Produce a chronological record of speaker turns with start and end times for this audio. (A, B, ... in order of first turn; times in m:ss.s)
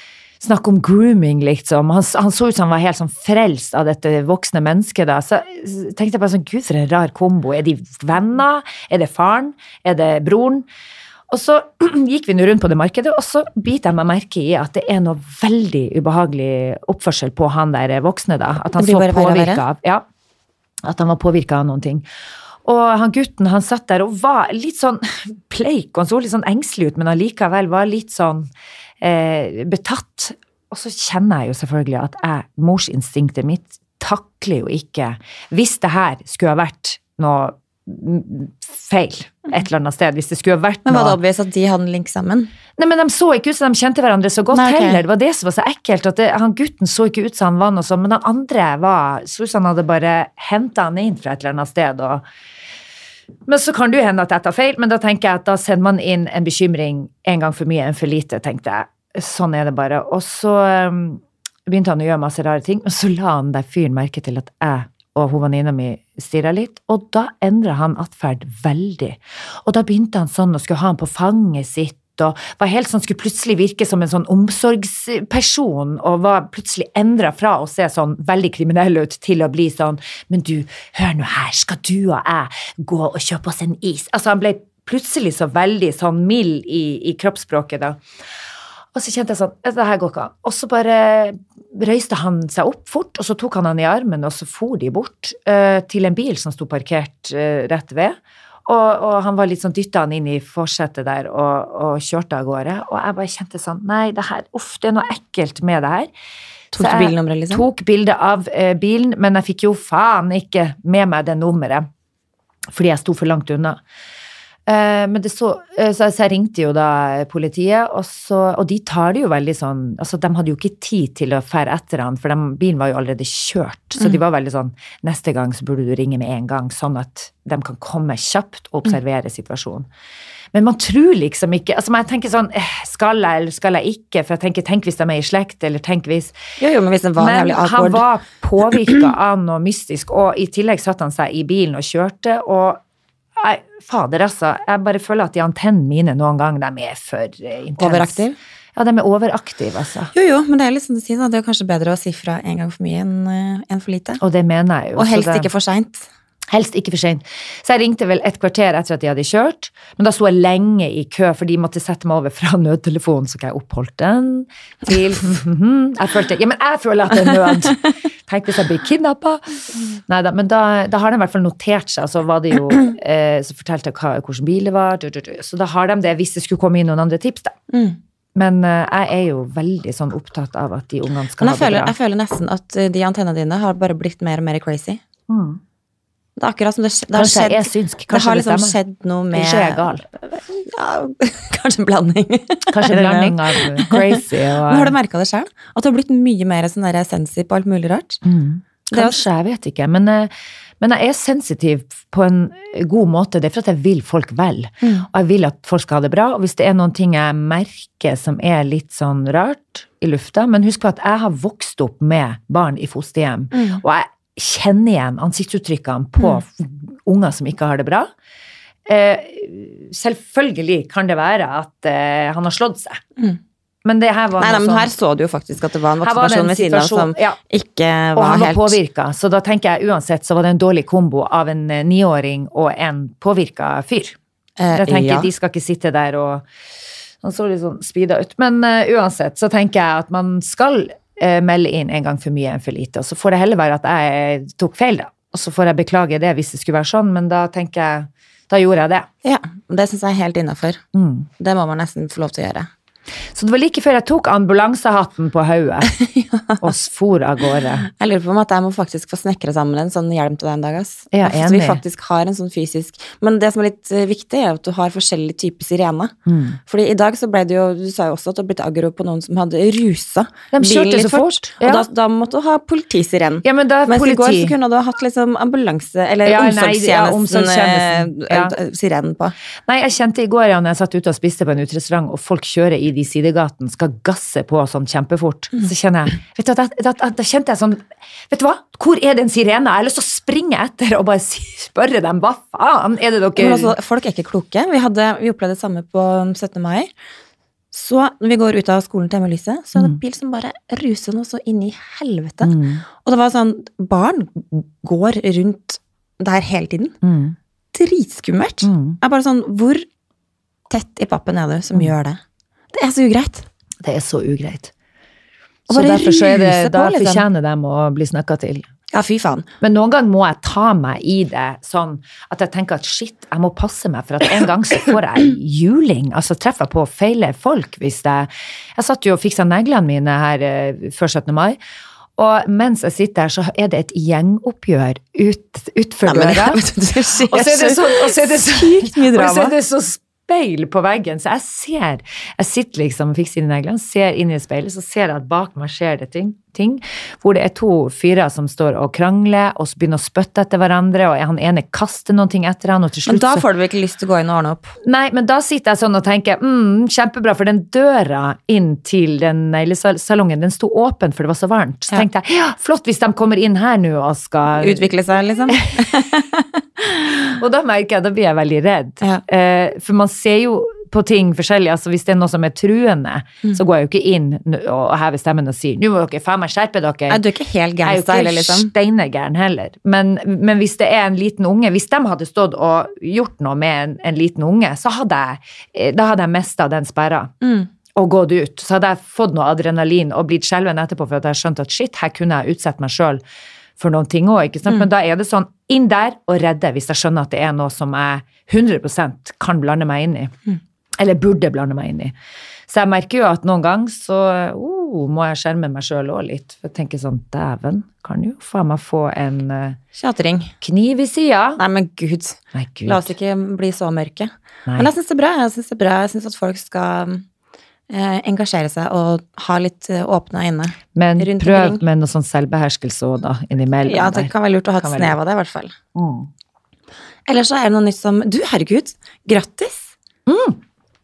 0:00.4-0:10.7 A
0:11.3-0:20.0 A
0:18.8-0:19.6 B
0:20.8-0:22.1 A
0:22.6-0:28.5 A
0:29.0-0:41.2 A
0:40.8-0:42.5 B
0:42.8-0:52.2 A
0:44.5-0:45.0 B
0:53.5-1:28.0 A
1:28.9-1:46.1 A
1:46.7-1:47.6 B
1:46.8-1:51.9 A
1:52.7-1:53.8 A
1:54.7-2:09.9 A
2:10.5-2:16.4 A
2:16.6-2:18.0 B
2:17.2-2:22.8 A
2:23.4-2:28.2 A
2:27.8-2:28.4 B
2:28.8-2:30.1 A
2:30.1-2:34.2 B
2:34.2-2:35.5 A
2:35.0-2:36.1 B
2:36.5-2:57.6 A
2:57.7-2:58.0 B
2:58.4-3:01.9 A
3:01.4-3:05.0 B
3:05.3-3:05.6 A
3:06.4-3:18.2 B
3:07.1-3:08.8 A
3:09.3-3:10.0 A
3:12.7-3:15.0 A
3:18.2-3:38.1 A
3:18.9-3:19.2 B
3:24.8-3:25.1 B
3:33.5-3:33.8 B
3:38.9-3:43.0 A
3:43.8-3:44.9 A
3:44.4-3:48.8 B
3:46.0-3:47.4 A
3:48.2-3:54.2 A
3:54.6-3:55.3 B
3:54.7-3:56.4 A
3:57.2-4:09.1 A
4:09.2-4:10.8 B
4:10.9-4:11.3 A
4:11.4-4:12.7 B
4:13.4-4:15.9 A
4:15.9-4:16.7 B
4:16.6-4:17.9 A
4:17.9-4:39.4 B
4:21.1-4:21.8 A
4:26.3-4:26.6 A
4:30.5-4:31.9 A
4:33.4-4:34.6 A
4:36.2-4:38.6 A
4:39.7-4:53.8 A
4:53.4-4:56.9 B
4:57.7-5:07.0 B
5:02.4-5:02.8 A
5:07.0-5:07.4 A
5:07.7-5:09.9 B
5:08.6-5:09.0 A
5:10.7-5:12.2 B
5:12.7-5:13.5 B
5:13.8-5:14.7 A
5:15.7-5:17.3 B
5:15.7-5:18.7 A
5:18.9-5:19.5 B
5:19.6-5:31.6 A
5:32.2-5:36.6 A
5:36.0-5:39.6 B
5:37.2-5:53.5 A
5:53.1-5:54.7 B
5:54.8-6:04.9 A
6:04.5-6:07.3 B
6:05.5-6:05.9 A
6:07.3-6:17.2 A
6:17.1-6:18.7 B
6:17.8-6:27.3 A
6:27.4-6:27.7 B
6:28.0-6:33.2 A
6:33.8-6:40.3 A
6:41.0-6:42.1 A
6:42.7-6:49.8 A
6:50.0-6:50.5 B
6:50.6-6:51.6 A
6:51.6-6:57.2 B
6:52.5-6:53.1 A
6:57.9-7:01.8 B
7:01.0-7:05.2 A
7:03.8-7:05.8 B
7:06.0-7:06.3 A
7:07.3-7:09.9 B
7:10.3-7:10.6 A